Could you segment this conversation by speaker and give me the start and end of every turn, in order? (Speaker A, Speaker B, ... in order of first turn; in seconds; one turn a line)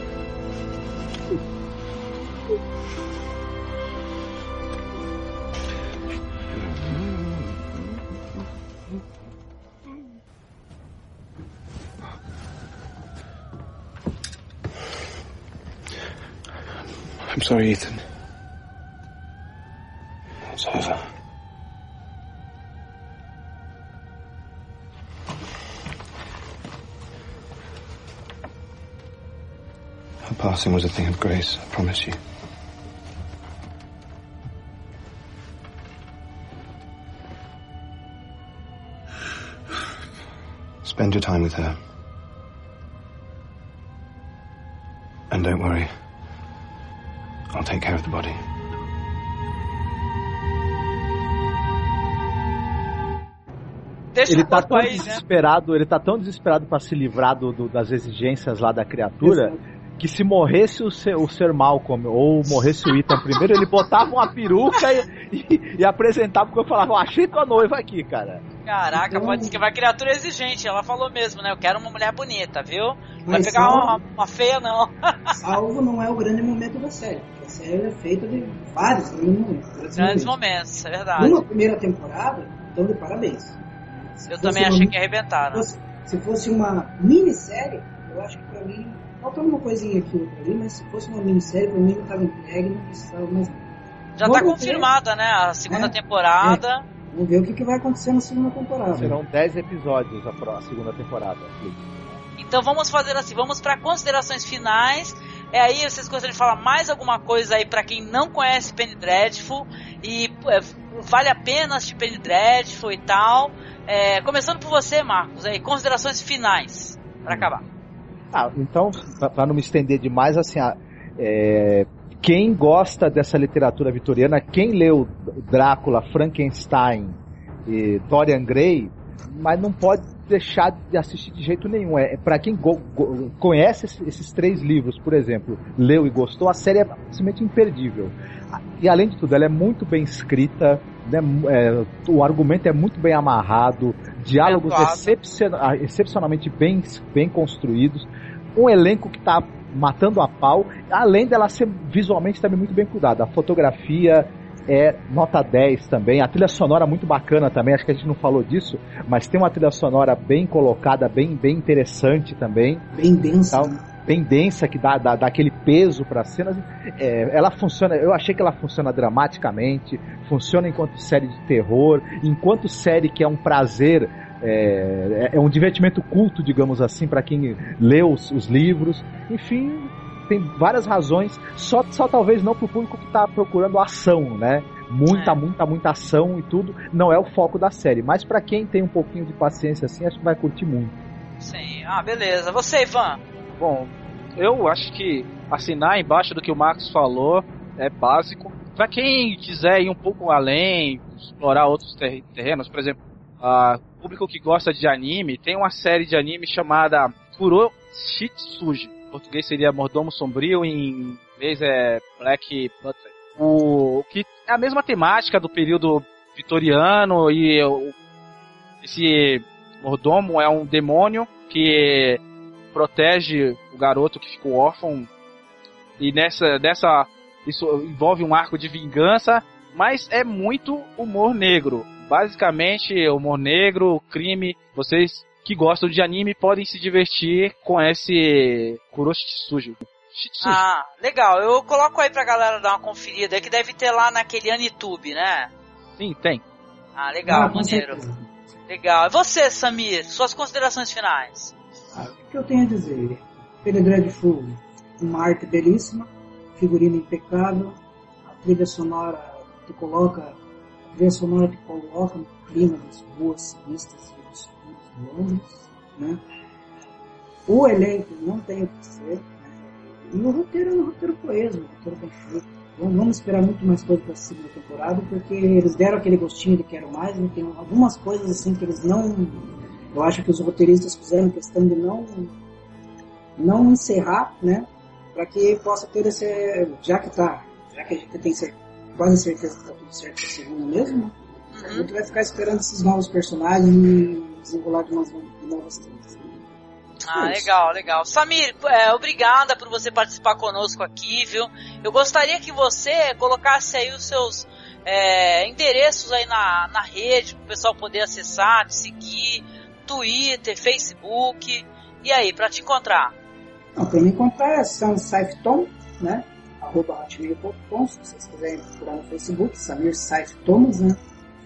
Speaker A: 17.3-18.0
Speaker A: 20.5-21.0
Speaker A: 30.2-32.2
Speaker A: 40.8-41.8
Speaker A: 45.3-46.0
Speaker A: 47.5-48.4
Speaker B: 54.1-55.2
Speaker C: 54.3-68.4
Speaker D: 59.2-59.6
Speaker B: 68.7-75.2
Speaker D: 69.0-69.6
Speaker D: 73.3-74.0
Speaker D: 75.3-80.3
Speaker B: 80.0-81.5
Speaker D: 81.2-85.0
Speaker B: 84.3-85.7
Speaker D: 85.5-93.7
Speaker B: 94.2-96.9
Speaker D: 94.2-94.9
Speaker D: 95.7-99.2
Speaker C: 98.9-102.2
Speaker B: 102.4-117.6
Speaker C: 118.3-162.8
Speaker B: 144.4-145.2
Speaker D: 162.9-163.8
Speaker C: 163.5-191.0
Speaker B: 185.1-185.4
Speaker B: 191.4-193.2
Speaker E: 193.6-217.9
Speaker E: 218.8-222.2
Speaker E: 222.7-225.1
Speaker E: 226.0-240.6
Speaker B: 240.4-245.5
Speaker E: 246.0-246.4
Speaker B: 247.0-248.0
Speaker D: 247.3-248.3
Speaker B: 248.7-251.5
Speaker D: 251.9-260.4
Speaker D: 260.9-266.2
Speaker D: 267.5-282.3
Speaker D: 283.4-291.1
Speaker B: 291.5-291.9
Speaker D: 291.6-296.4
Speaker B: 297.0-313.1
Speaker D: 297.1-297.5
Speaker D: 313.8-321.0